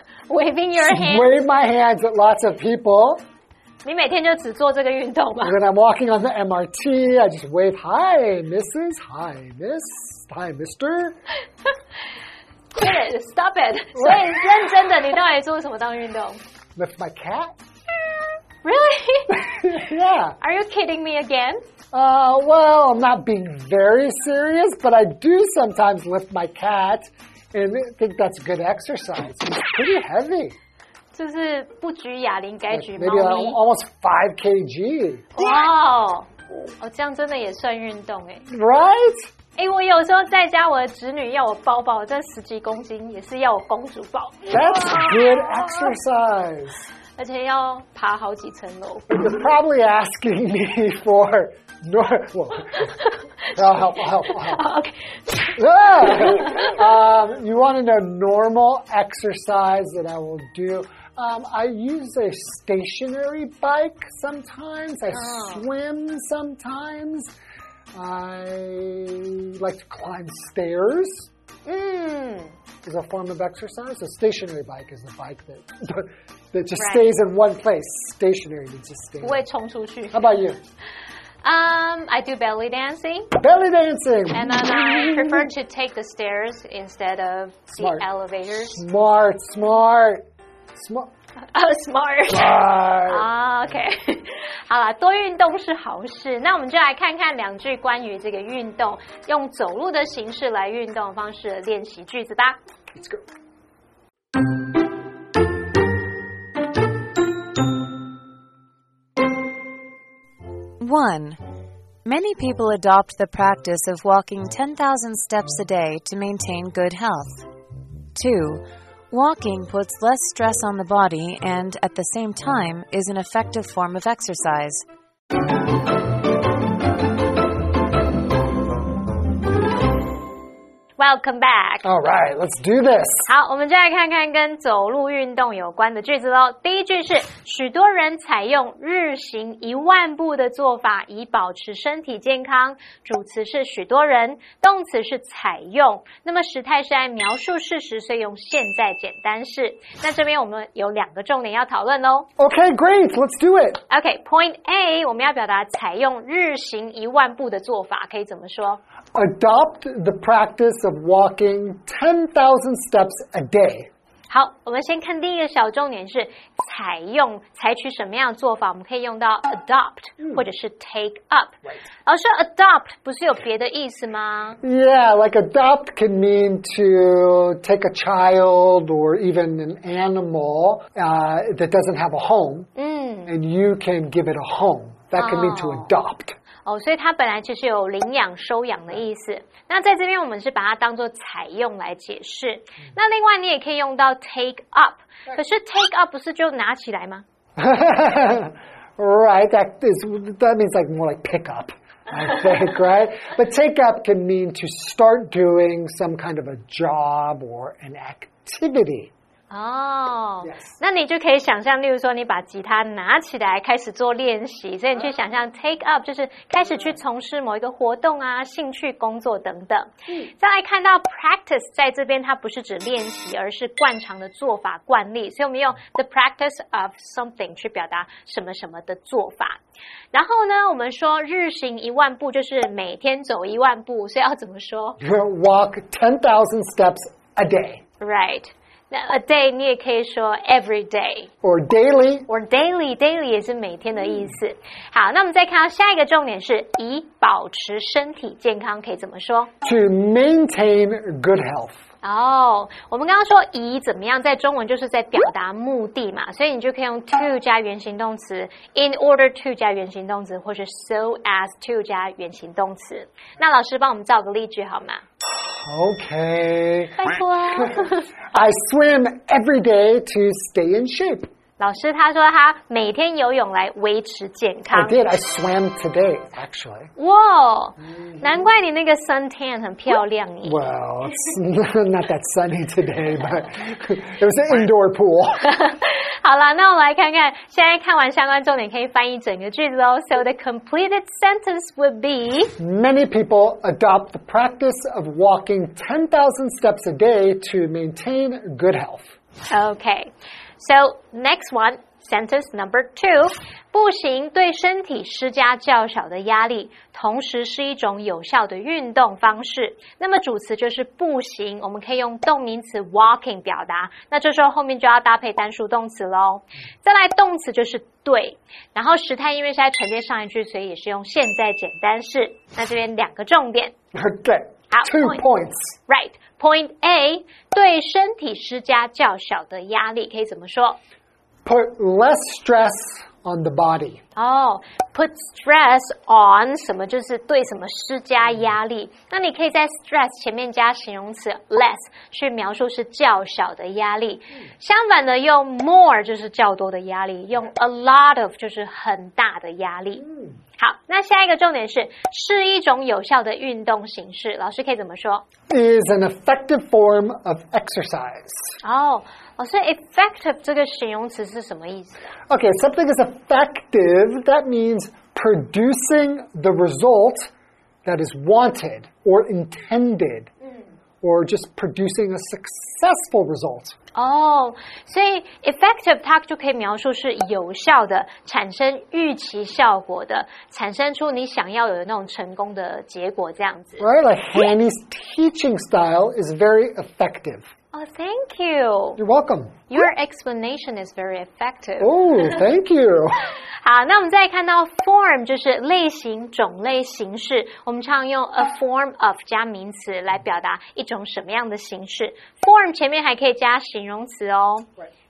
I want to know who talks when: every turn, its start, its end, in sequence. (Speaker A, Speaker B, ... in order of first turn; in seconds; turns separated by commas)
Speaker A: 0.3-1.4, Speaker B: 0.8-3.2, Speaker A: 3.8-5.5, Speaker B: 5.4-11.2, Speaker A: 12.7-16.4, Speaker B: 13.9-14.4, Speaker B: 16.8-17.5, Speaker A: 18.6-19.4, Speaker B: 19.3-20.4, Speaker A: 20.4-21.6, Speaker B: 21.9-30.5, Speaker A: 31.1-33.6, Speaker B: 32.7-35.6, Speaker A: 35.4-38.4, Speaker B: 38.5-39.3, Speaker A: 39.5-46.0, Speaker B: 44.5-46.9, Speaker A: 47.2-49.1, Speaker B: 49.1-52.9, Speaker B: 53.5-54.6, Speaker A: 54.3-55.5, Speaker B: 55.5-67.3, Speaker A: 56.0-56.6, Speaker A: 65.1-65.6, Speaker B: 67.9-71.3, Speaker A: 71.7-72.5, Speaker B: 72.8-79.4, Speaker A: 76.8-77.1, Speaker A: 79.2-80.2, Speaker B: 80.1-80.6, Speaker A: 81.4-83.3, Speaker B: 83.3-85.5, Speaker A: 84.3-88.8, Speaker B: 87.8-88.0, Speaker B: 88.6-91.1, Speaker A: 91.5-102.6, Speaker B: 92.3-93.3, Speaker B: 102.9-103.2, Speaker C: 110.8-111.4, Speaker C: 112.0-117.5, Speaker C: 118.1-124.8, Speaker A: 131.0-131.8, Speaker B: 131.8-133.2, Speaker A: 133.3-152.3, Speaker B: 152.4-153.8, Speaker A: 153.9-158.8, Speaker B: 159.1-163.9, Speaker A: 164.3-174.6, Speaker B: 174.6-182.7, Speaker A: 182.8-183.3, Speaker B: 183.2-186.3, Speaker A: 185.2-185.9, Speaker A: 186.6-197.2, Speaker B: 197.6-209.1, Speaker A: 209.5-229.6, Speaker B: 210.4-210.8, Speaker A: 230.1-235.0, Speaker B: 235.0-237.8, Speaker A: 238.0-241.3, Speaker B: 241.4-242.3, Speaker A: 242.3-249.5, Speaker B: 249.6-251.8, Speaker A: 252.0-265.0, Speaker B: 265.4-271.3, Speaker A: 267.0-268.1, Speaker A: 271.6-275.0, Speaker B: 274.7-276.9, Speaker A: 277.0-280.6, Speaker B: 277.8-278.4, Speaker B: 280.4-285.4, Speaker A: 285.4-292.5, Speaker B: 292.6-299.1, Speaker A: 299.5-323.7, Speaker B: 323.9-325.7, Speaker A: 324.7-325.2, Speaker A: 325.9-330.8, Speaker B: 331.4-334.0, Speaker A: 334.1-350.0, Speaker B: 350.0-350.4, Speaker A: 350.6-355.2, Speaker B: 355.5-358.4, Speaker A: 358.6-362.0, Speaker B: 362.3-367.3, Speaker B: 367.8-370.3, Speaker B: 371.0-373.7, Speaker A: 373.9-383.8, Speaker B: 383.8-387.5, Speaker A: 387.7-389.0, Speaker B: 389.0-389.6, Speaker A: 389.7-392.4, Speaker B: 391.8-393.1, Speaker A: 393.6-404.7